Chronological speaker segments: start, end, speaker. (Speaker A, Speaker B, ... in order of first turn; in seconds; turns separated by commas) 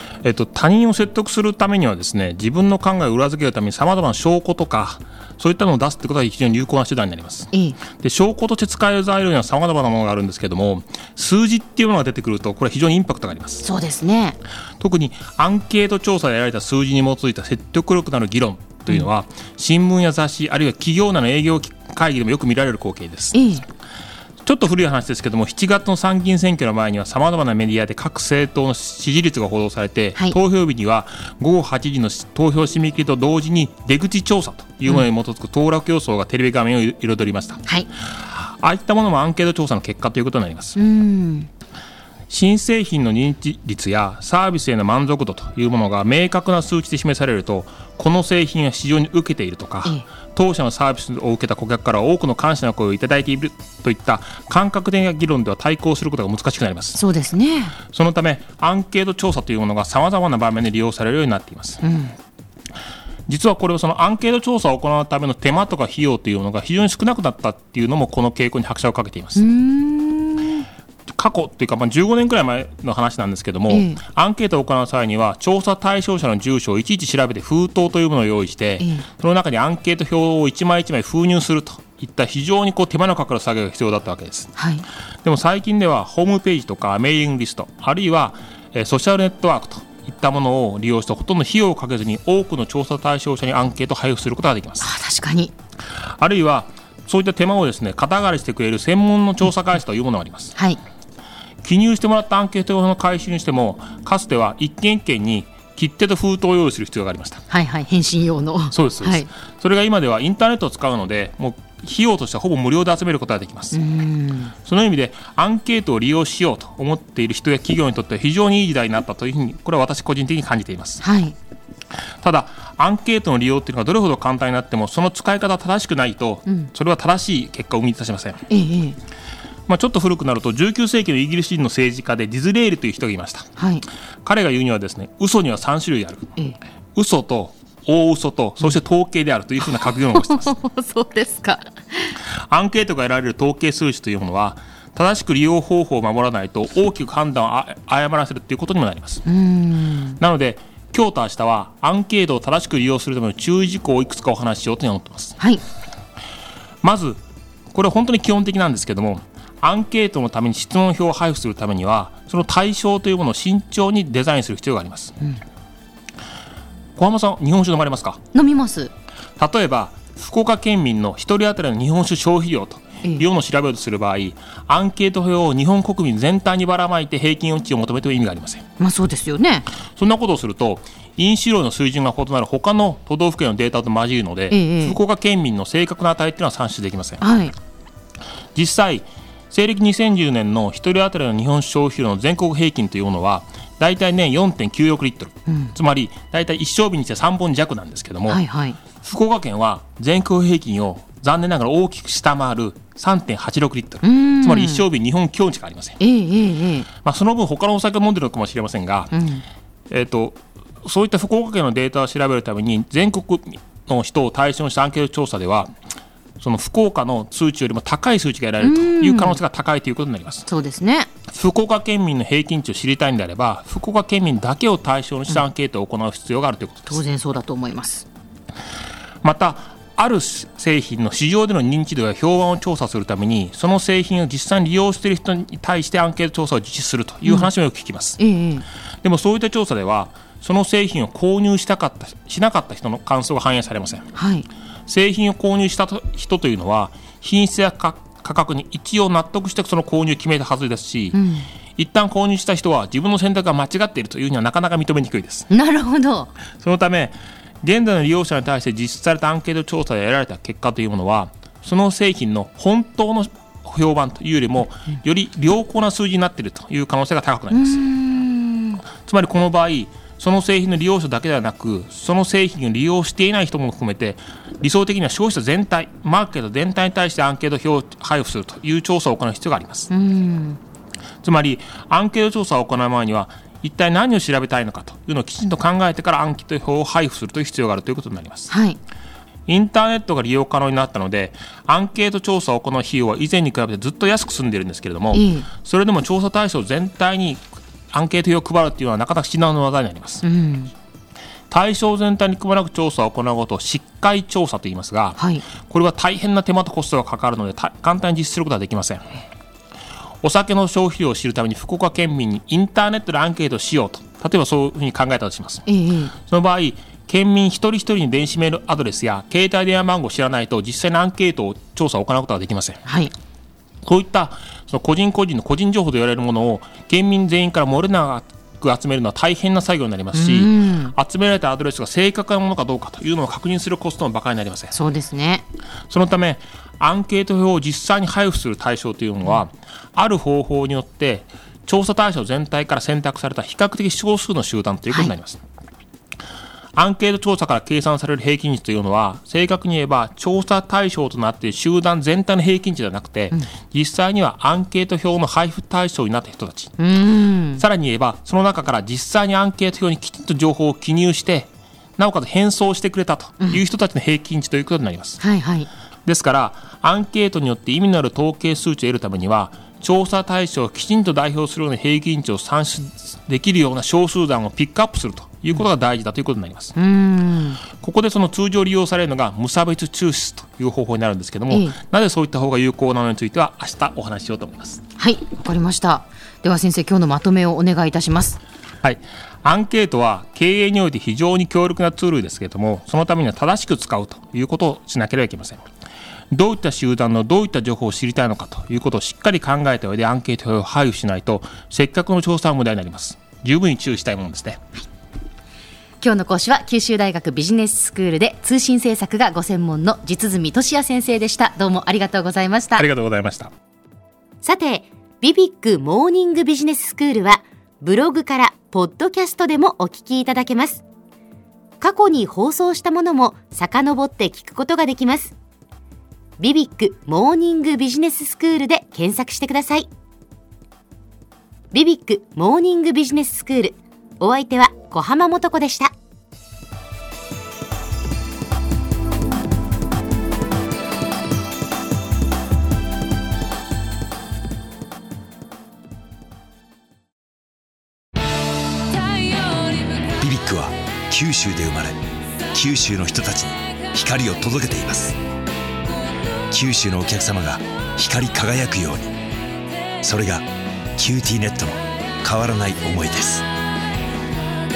Speaker A: 0.2-13.7, Speaker B: 7.5-7.8, Speaker B: 13.6-14.4, Speaker A: 14.8-23.5, Speaker B: 23.3-23.7, Speaker A: 24.4-37.6, Speaker A: 38.3-40.8, Speaker B: 40.8-41.5, Speaker A: 42.3-57.0, Speaker B: 56.9-57.8, Speaker A: 57.8-61.8, Speaker B: 61.8-62.1, Speaker A: 63.3-69.4, Speaker B: 69.3-70.7, Speaker A: 71.1-84.5, Speaker B: 73.7-74.0, Speaker B: 78.8-79.1, Speaker B: 84.6-84.8, Speaker A: 85.2-94.9, Speaker B: 94.8-95.5, Speaker A: 96.2-100.5, Speaker A: 101.6-107.4, Speaker B: 107.5-109.3, Speaker A: 108.7-113.8, Speaker B: 113.7-114.5, Speaker A: 114.6-121.0, Speaker B: 121.0-121.3, Speaker A: 122.2-128.5, Speaker B: 128.5-129.0, Speaker A: 129.7-133.5, Speaker B: 133.6-133.9, Speaker A: 134.2-136.3, Speaker A: 136.9-140.5, Speaker B: 139.7-142.2, Speaker A: 142.3-149.2, Speaker B: 149.2-150.2, Speaker A: 150.2-155.4, Speaker A: 156.8-157.2, Speaker A: 157.7-165.1, Speaker A: 167.0-168.2, Speaker B: 168.3-168.9, Speaker A: 169.4-178.7, Speaker B: 178.8-179.7, Speaker A: 180.0-187.2, Speaker B: 184.5-185.0, Speaker B: 187.2-187.6, Speaker A: 188.6-206.0, Speaker B: 195.5-195.7, Speaker B: 198.3-198.8, Speaker B: 204.0-204.8, Speaker B: 206.0-206.9, Speaker A: 207.0-209.1, Speaker B: 209.1-209.4, Speaker A: 209.9-215.7, Speaker A: 216.4-220.4, Speaker B: 218.6-219.4, Speaker B: 220.5-221.1, Speaker A: 221.3-227.0, Speaker B: 226.9-228.1, Speaker A: 229.2-238.2, Speaker B: 237.2-237.5, Speaker B: 238.2-238.7, Speaker A: 239.0-244.1, Speaker B: 244.1-244.5, Speaker A: 244.9-251.2, Speaker B: 251.1-251.5, Speaker A: 251.8-255.5, Speaker B: 255.5-256.3, Speaker A: 256.5-267.8, Speaker B: 267.5-268.8, Speaker A: 269.0-279.9, Speaker B: 279.9-280.6, Speaker A: 281.2-288.5, Speaker B: 288.5-288.8, Speaker A: 289.5-300.2, Speaker B: 295.1-295.5, Speaker B: 300.2-300.7, Speaker A: 301.5-309.2, Speaker B: 305.2-305.5, Speaker A: 310.2-315.6, Speaker B: 315.6-316.1, Speaker A: 316.2-322.8, Speaker B: 322.9-323.1, Speaker A: 323.8-334.8, Speaker B: 330.1-330.9, Speaker B: 334.7-335.4, Speaker A: 335.9-345.4, Speaker A: 346.8-356.7, Speaker B: 356.8-357.6, Speaker A: 357.6-365.2, Speaker B: 365.2-365.7, Speaker A: 366.1-376.7, Speaker B: 376.8-377.6, Speaker A: 377.7-384.8, Speaker B: 381.5-381.8, Speaker B: 385.0-388.4, Speaker A: 388.8-395.6, Speaker A: 396.3-404.6, Speaker B: 406.0-412.8, Speaker A: 412.8-413.5, Speaker B: 414.4-420.8, Speaker B: 421.8-425.3, Speaker B: 426.4-429.9, Speaker B: 431.7-435.9, Speaker C: 450.2-452.0, Speaker C: 452.5-455.2, Speaker C: 456.5-459.1, Speaker C: 460.0-463.4